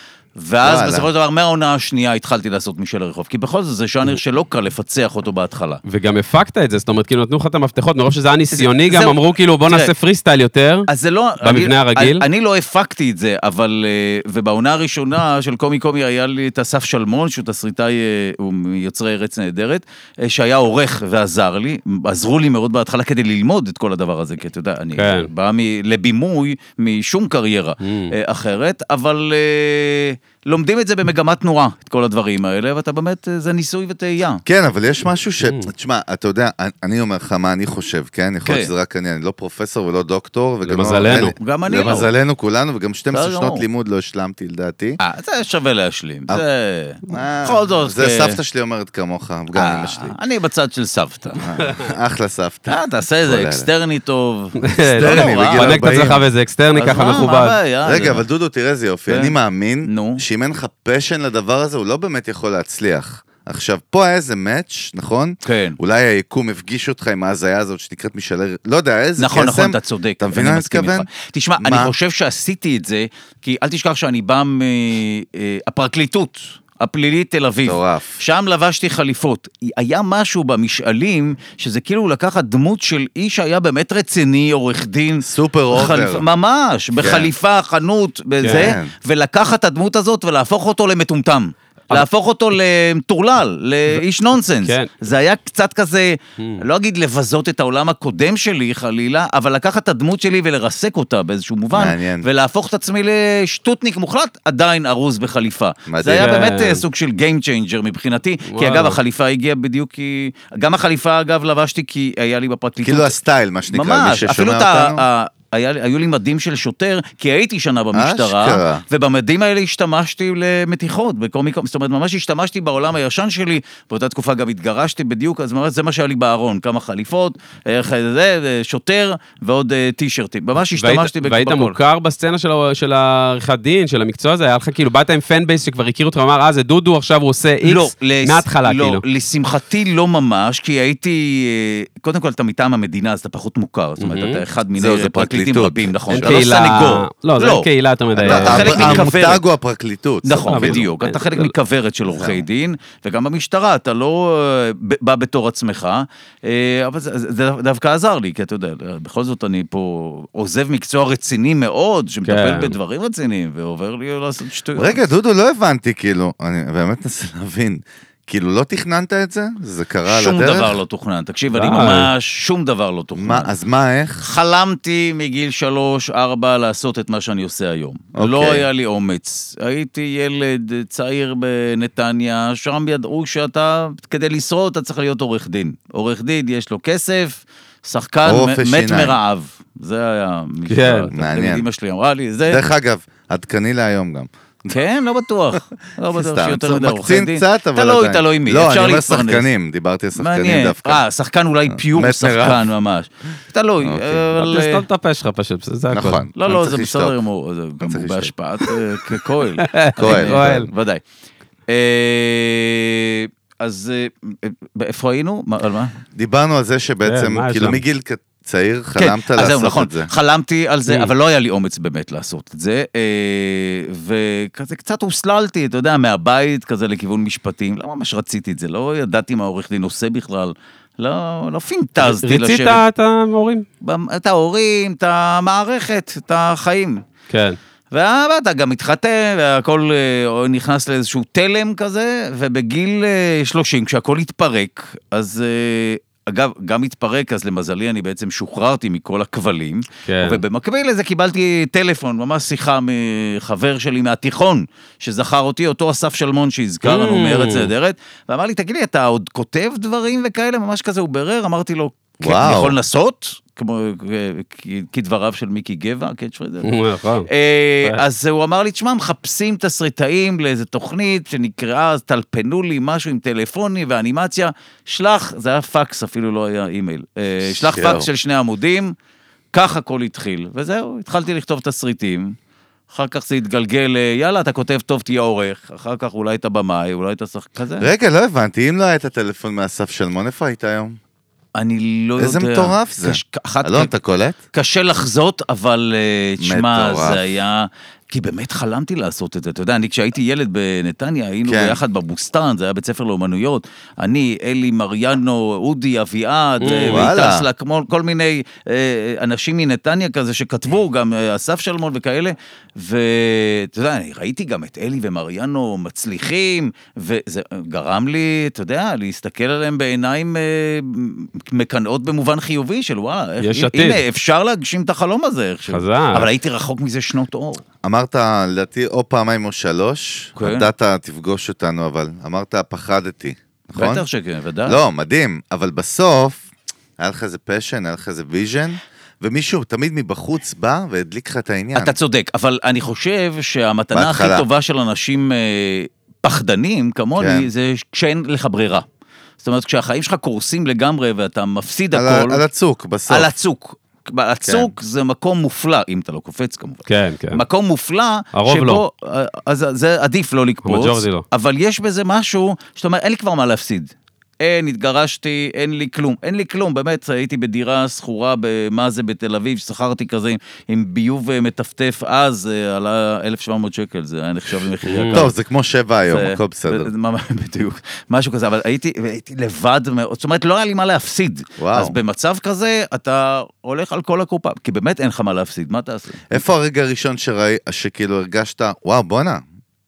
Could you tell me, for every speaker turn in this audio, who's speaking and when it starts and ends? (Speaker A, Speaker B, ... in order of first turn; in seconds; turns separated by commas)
Speaker A: 0.3-5.8, Speaker B: 0.6-1.1, Speaker C: 5.8-10.9, Speaker A: 8.5-9.9, Speaker A: 10.9-34.4, Speaker C: 11.4-12.2, Speaker C: 25.0-25.3, Speaker C: 27.8-28.1, Speaker B: 34.4-45.0, Speaker C: 35.4-35.7, Speaker A: 38.4-38.7, Speaker C: 40.6-41.3, Speaker A: 41.3-42.1, Speaker A: 43.1-43.6, Speaker A: 45.0-48.4, Speaker B: 47.1-50.1, Speaker A: 49.5-51.4, Speaker B: 51.4-53.7, Speaker A: 52.7-55.8, Speaker C: 54.6-57.6, Speaker B: 54.9-56.2, Speaker A: 56.7-58.2, Speaker B: 57.8-71.1, Speaker A: 59.1-60.2, Speaker A: 65.4-65.8, Speaker A: 69.2-113.1, Speaker B: 71.6-71.9, Speaker B: 77.6-78.2, Speaker B: 85.2-86.2, Speaker B: 87.0-87.3, Speaker C: 88.4-88.8, Speaker B: 88.4-88.9, Speaker C: 94.6-94.9, Speaker B: 101.7-102.3, Speaker B: 105.9-106.4, Speaker C: 106.1-106.8, Speaker C: 108.5-109.0, Speaker B: 112.8-115.0, Speaker A: 113.7-131.8, Speaker B: 117.9-118.8, Speaker C: 130.7-139.0, Speaker A: 137.6-147.7, Speaker C: 144.0-144.4, Speaker B: 144.8-146.5, Speaker C: 146.1-149.1, Speaker B: 148.2-150.8, Speaker A: 148.2-149.4, Speaker A: 150.2-165.0, Speaker C: 150.4-151.5, Speaker B: 152.0-152.4, Speaker C: 162.2-162.7, Speaker B: 164.8-170.7, Speaker A: 170.1-173.5, Speaker C: 171.5-172.1, Speaker B: 173.2-174.2, Speaker A: 174.2-192.6, Speaker B: 178.1-178.7, Speaker B: 188.2-189.2, Speaker C: 190.7-191.1, Speaker B: 191.1-191.7, Speaker B: 192.5-194.8, Speaker A: 194.7-199.5, Speaker B: 196.1-201.0, Speaker A: 200.2-204.8, Speaker B: 201.7-202.7, Speaker B: 203.8-204.2, Speaker C: 204.4-206.2, Speaker B: 205.9-207.2, Speaker A: 206.3-211.0, Speaker B: 207.8-208.3, Speaker C: 209.6-210.7, Speaker B: 210.0-210.7, Speaker A: 211.7-216.0, Speaker B: 216.1-220.1, Speaker C: 217.0-217.8, Speaker A: 218.9-232.8, Speaker C: 232.0-233.7, Speaker A: 233.8-237.0, Speaker C: 237.3-237.6, Speaker A: 237.9-266.7, Speaker C: 250.1-250.4, Speaker C: 256.8-257.7, Speaker B: 262.2-262.8, Speaker C: 266.6-267.3, Speaker A: 267.2-278.9, Speaker B: 277.5-278.1, Speaker A: 279.5-282.4, Speaker A: 282.9-287.9, Speaker B: 287.8-291.0, Speaker A: 291.5-293.9, Speaker B: 292.2-294.4, Speaker A: 294.5-327.6, Speaker B: 296.4-297.2, Speaker B: 301.4-301.8, Speaker C: 306.6-307.1, Speaker B: 306.9-307.4, Speaker C: 323.4-324.0, Speaker C: 325.7-326.3, Speaker B: 327.8-334.0, Speaker A: 330.4-330.7, Speaker A: 333.8-334.8, Speaker B: 334.6-336.4, Speaker B: 337.0-341.9, Speaker A: 341.7-348.8, Speaker B: 343.9-344.4, Speaker B: 347.1-347.5, Speaker A: 349.4-352.4, Speaker B: 351.9-353.3, Speaker A: 353.1-375.3, Speaker B: 354.4-354.7, Speaker C: 356.9-357.4, Speaker C: 358.3-358.8, Speaker C: 360.6-361.2, Speaker C: 374.8-375.3, Speaker B: 375.1-376.9, Speaker A: 376.1-386.4, Speaker B: 381.6-382.0, Speaker B: 386.3-389.4